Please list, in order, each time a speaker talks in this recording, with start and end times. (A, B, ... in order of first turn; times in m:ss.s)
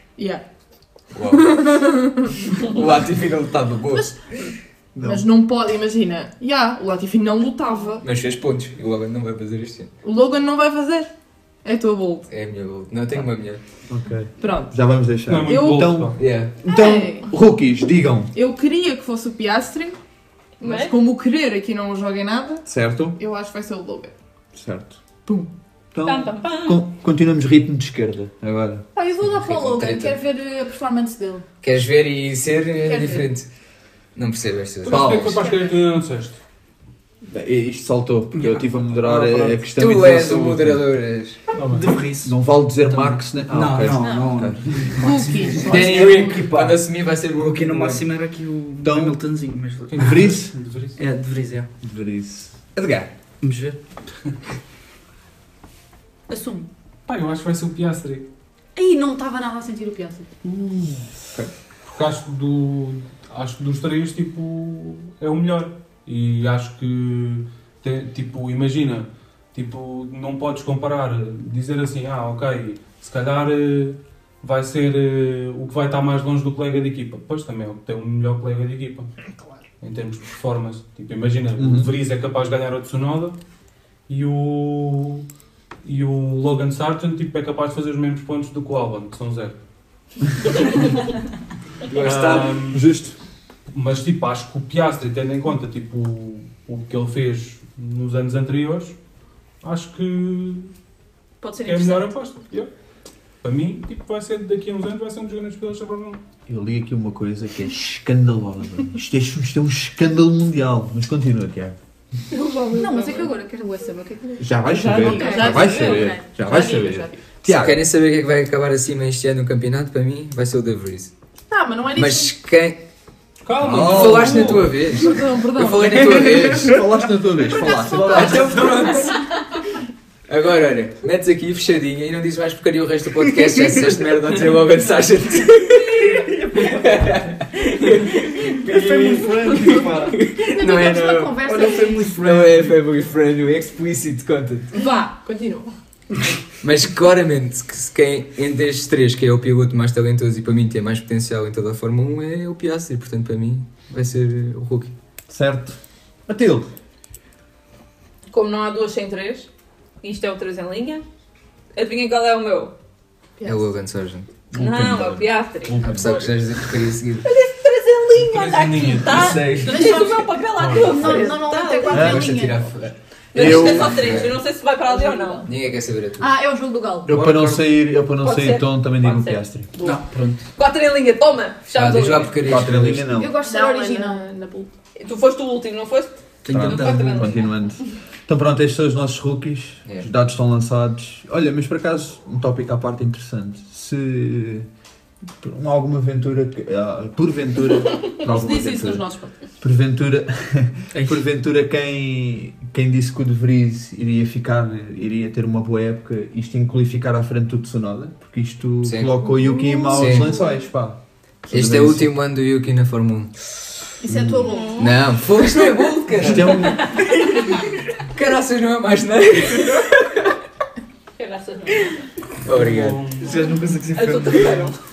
0:00.2-0:00.4 A
0:01.1-0:01.6 B
0:01.4-0:02.4 A
0:02.6-0:04.1 B
0:05.0-0:05.3 C
0:05.0-0:08.0 A
0:08.0-0:09.9 B
0:10.0-0:11.1 A
0:11.6-0:12.3 A
0:12.3-0:13.6 B
0:13.9-0:18.3 C
0:14.4-0:14.8 A
0:15.3-0:16.2 D
0:15.4-0:16.0 A
0:16.2-0:16.6 B
0:16.7-0:17.3 A
0:18.3-0:20.0 A
0:20.6-0:21.0 E
0:20.6-0:24.1 A
0:22.7-0:23.2 C
0:24.5-0:28.9 C
0:26.0-0:26.8 E
0:29.0-0:31.4 F
0:29.2-0:30.2 B
0:31.6-0:33.5 B
0:32.9-0:33.2 F
0:34.2-0:35.2 B
0:34.8-0:36.4 D
0:34.9-0:35.4 C
0:35.3-0:35.7 A
0:37.2-0:40.9 C
0:38.3-0:39.6 G
0:39.8-0:41.4 B
0:41.5-0:41.9 D
0:41.6-0:50.3 G
0:42.2-0:45.0 C
0:44.0-0:44.4 F
0:45.0-0:46.4 A
0:45.6-0:48.1 B
0:48.8-0:49.2 C
0:49.9-0:51.0 D
0:50.0-0:50.5 C
0:51.0-0:51.7 G
0:51.8-0:53.1 C
0:53.4-0:53.8 G
0:56.3-0:56.7 F
0:57.1-0:58.3 D
0:58.8-1:00.4 F
1:00.5-1:00.8 C
1:01.9-1:19.1 D
1:19.8-1:23.4 D
1:21.6-1:21.9 C
1:24.1-1:25.2 D
1:25.8-1:29.6 D
1:31.9-1:32.5 B
1:31.9-1:32.9 D
1:32.0-1:33.2 C
1:33.7-1:39.0 D
1:39.6-1:40.7 D
1:41.4-1:42.1 F
1:41.6-1:42.7 D
1:43.4-1:46.2 D
1:46.5-1:51.8 C
1:52.3-1:53.3 A
1:52.7-1:56.2 F
1:54.4-1:57.8 C
1:54.7-1:56.1 E
1:54.8-1:57.2 A
1:57.5-2:01.1 B
2:01.5-2:02.3 A
2:01.9-2:02.8 B
2:03.4-2:04.7 D
2:03.6-2:04.9 C
2:03.7-2:06.8 B
2:04.8-2:06.2 A
2:05.9-2:08.7 C
2:07.5-2:09.1 A
2:08.0-2:09.2 B
2:10.3-2:21.4 B
2:18.7-2:20.0 A
2:18.9-2:20.1 G
2:20.4-2:22.0 F
2:21.4-2:22.8 G
2:22.1-2:24.8 B
2:24.7-2:25.7 A
2:26.6-2:34.9 B
2:35.3-2:36.7 C
2:38.3-2:39.5 E
2:40.0-2:41.0 E
2:41.7-2:42.7 E
2:43.4-2:43.7 A
2:43.4-2:44.3 B
2:44.5-2:46.4 C
2:44.6-2:46.1 E
2:45.8-2:47.3 B
2:47.2-2:52.2 E
2:48.2-2:49.4 D
2:49.1-2:49.9 C
2:49.6-2:52.6 F
2:50.6-2:50.9 D
2:51.9-2:52.3 C
2:51.9-2:54.4 B
2:53.3-2:55.5 E
2:53.4-2:54.2 C
2:55.5-2:56.3 B
2:56.2-2:57.1 F
2:57.1-2:57.7 G
2:57.1-2:59.7 C
2:58.2-2:59.9 E
2:59.8-3:00.5 G
3:00.6-3:02.4 E
3:01.7-3:03.1 B
3:02.4-3:03.3 C
3:03.1-3:04.3 F
3:03.4-3:04.7 A
3:05.0-3:07.5 E
3:06.4-3:07.3 G
3:06.5-3:14.7 C
3:15.4-3:19.1 C
3:18.2-3:19.4 A
3:19.6-3:32.1 C
3:20.9-3:21.2 G
3:28.8-3:29.1 B
3:29.2-3:30.5 A
3:29.9-3:30.3 B
3:31.5-3:33.3 B
3:34.0-3:34.7 A
3:34.1-3:34.5 C
3:34.1-3:34.8 F
3:34.5-3:34.9 E
3:34.8-3:40.3 B
3:36.2-3:36.9 C
3:41.2-3:42.1 E
3:42.4-3:43.0 B
3:42.5-3:43.4 D
3:43.2-3:44.7 G
3:43.9-3:44.8 E